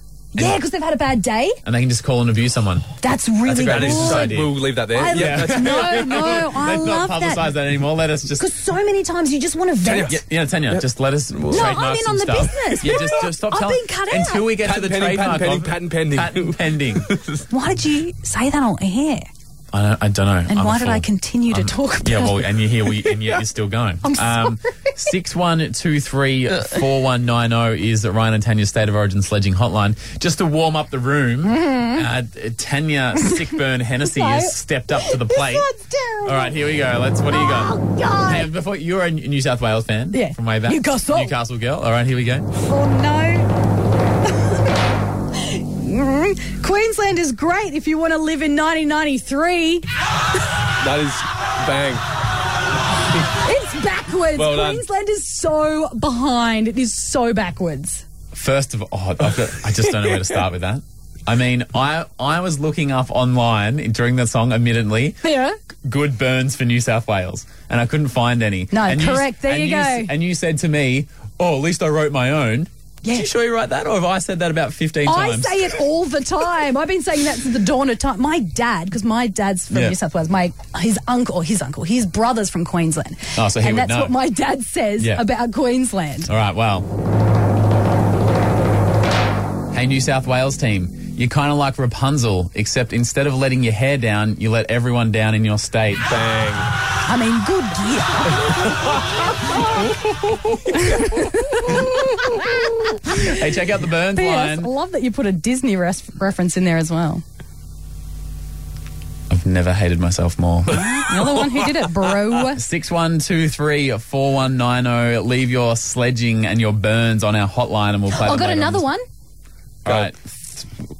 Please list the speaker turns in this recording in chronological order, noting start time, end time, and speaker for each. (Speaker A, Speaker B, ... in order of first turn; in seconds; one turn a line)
Speaker A: 0.3-1.6
Speaker B: 0.3-0.6
Speaker B: 1.6-2.9
Speaker A: 3.0-4.4
Speaker B: 3.4-4.5
Speaker C: 3.7-6.2
Speaker A: 4.9-7.5
Speaker B: 5.1-8.5
Speaker A: 8.4-10.1
Speaker C: 9.8-10.8
Speaker B: 10.1-17.1
Speaker A: 11.5-14.5
Speaker C: 14.6-17.4
Speaker A: 17.5-19.3
Speaker B: 19.7-35.7
Speaker A: 20.5-22.4
Speaker A: 24.0-24.5
Speaker A: 31.4-32.0
Speaker A: 34.0-36.6
Speaker B: 36.2-42.5
Speaker A: 37.3-38.5
Speaker A: 40.1-41.3
Speaker A: 42.7-43.5
Speaker A: 45.5-49.8
Speaker C: 50.8-52.0
Speaker A: 53.4-58.0
Speaker C: 54.4-54.8
Speaker B: 58.3-65.2
Speaker A: 65.2-65.5
Speaker B: 65.8-75.8
Speaker A: 68.7-70.1
Speaker A: 75.0-86.3
Speaker B: 79.7-80.0
Speaker B: 83.3-84.1
Speaker B: 85.0-85.2
Speaker B: 86.3-86.9
Speaker B: 89.7-96.1
Speaker C: 96.1-96.7
Speaker A: 97.0-98.9
Speaker B: 100.1-100.7
Speaker A: 100.8-103.2
Speaker B: 103.0-104.7
Speaker A: 104.1-107.2
Speaker B: 109.3-110.8
Speaker A: 110.7-112.6
Speaker B: 112.5-118.9
Speaker A: 118.1-119.0
Speaker B: 119.8-120.6